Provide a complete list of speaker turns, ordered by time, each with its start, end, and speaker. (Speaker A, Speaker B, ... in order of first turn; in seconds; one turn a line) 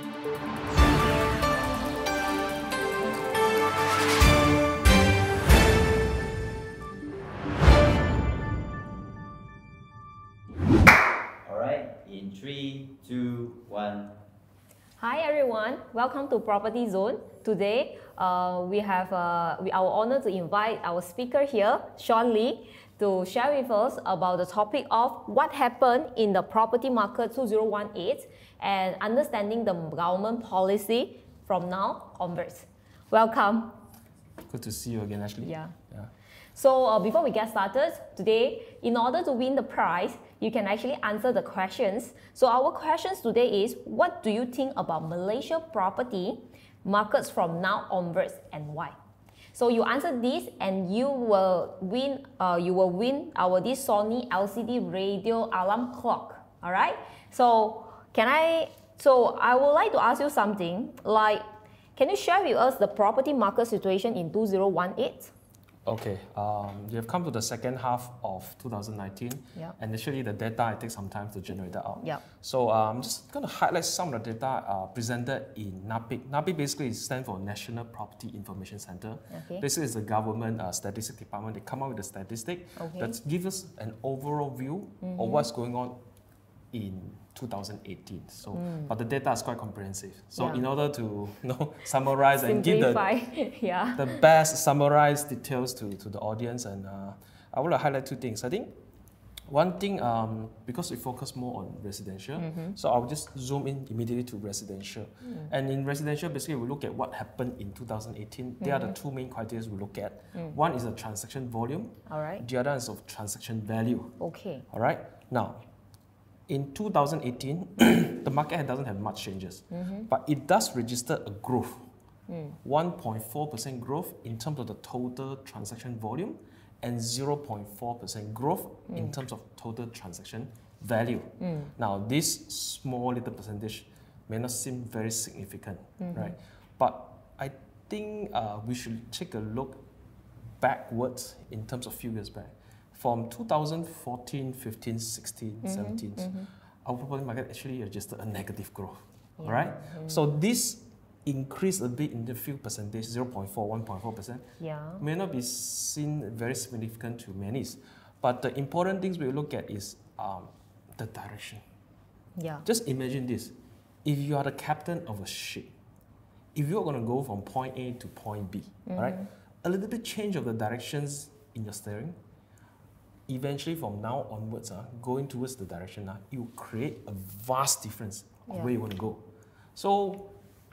Speaker A: 11.4-14.1
Speaker B: 15.0-33.8
Speaker C: 34.5-36.1
Speaker B: 35.4-35.8
Speaker B: 36.5-49.0
Speaker B: 49.5-61.4
Speaker B: 62.0-65.3
Speaker C: 65.8-86.0
Speaker B: 79.3-79.7
Speaker B: 82.8-83.2
Speaker B: 85.0-85.5
Speaker C: 86.7-93.1
Speaker B: 88.5-88.9
Speaker B: 90.4-90.6
Speaker B: 92.2-94.2
Speaker C: 94.0-98.7
Speaker C: 99.5-114.2
Speaker B: 102.4-102.8
Speaker B: 108.6-109.0
Speaker B: 112.1-112.5
Speaker B: 114.2-114.7
Speaker C: 114.7-115.7
Speaker C: 116.5-121.9
Speaker B: 119.7-120.1
Speaker B: 122.3-122.6
Speaker C: 122.6-139.8
Speaker B: 128.9-129.2
Speaker B: 131.4-131.7
Speaker B: 136.0-136.4
Speaker C: 140.6-154.4
Speaker B: 145.6-146.5
Speaker B: 149.4-150.3
Speaker B: 154.6-155.1
Speaker C: 155.0-161.6
Speaker B: 162.4-162.7
Speaker C: 162.7-165.8
Speaker C: 166.6-172.2
Speaker B: 168.9-169.3
Speaker C: 173.3-180.3
Speaker B: 178.5-178.7